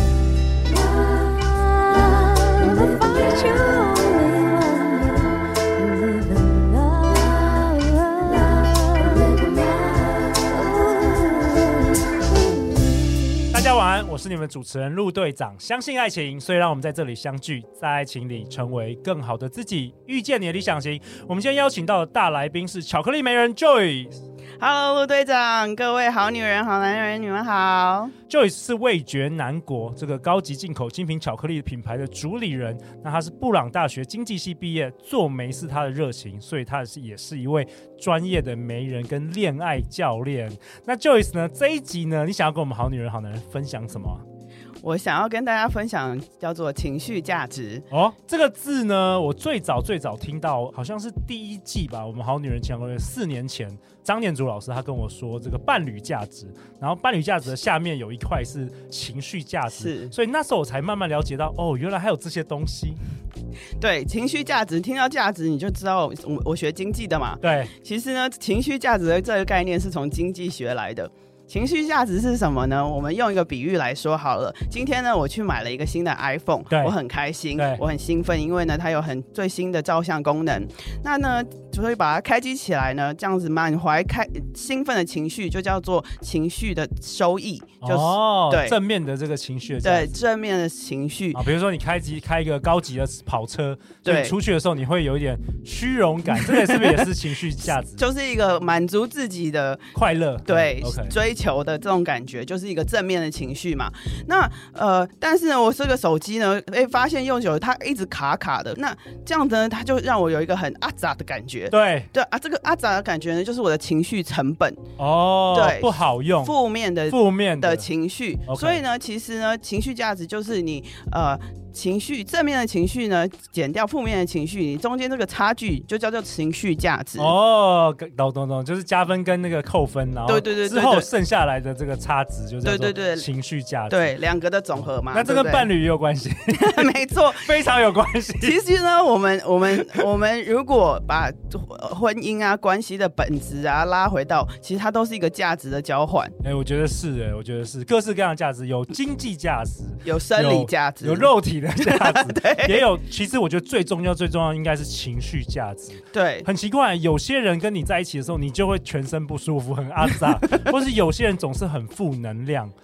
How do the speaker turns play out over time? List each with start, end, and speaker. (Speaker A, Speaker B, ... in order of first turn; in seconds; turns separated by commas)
Speaker A: 0.7-11.9, Speaker A: 12.6-13.3, Speaker B: 13.5-24.2, Speaker C: 24.6-28.1, Speaker B: 28.3-44.2, Speaker C: 44.8-47.8, Speaker B: 47.9-63.0, Speaker C: 59.7-60.1, Speaker C: 63.8-88.8, Speaker B: 67.4-67.7, Speaker B: 76.7-76.9, Speaker B: 77.5-77.8, Speaker B: 87.8-90.1, Speaker C: 89.8-91.4, Speaker B: 91.3-98.0, Speaker C: 94.0-94.3, Speaker C: 96.3-97.1, Speaker C: 98.0-99.9, Speaker B: 99.9-101.1, Speaker C: 100.5-114.8, Speaker B: 111.7-112.1, Speaker B: 115.0-116.5, Speaker C: 115.5-127.3, Speaker B: 117.1-117.8, Speaker B: 118.5-118.8, Speaker B: 127.2-134.1, Speaker C: 130.3-131.1, Speaker C: 132.6-133.3, Speaker C: 133.9-135.7, Speaker B: 134.8-138.6, Speaker C: 136.5-137.5, Speaker C: 138.4-146.3, Speaker B: 146.4-162.7, Speaker C: 150.0-152.8, Speaker C: 156.1-156.5, Speaker C: 160.4-160.7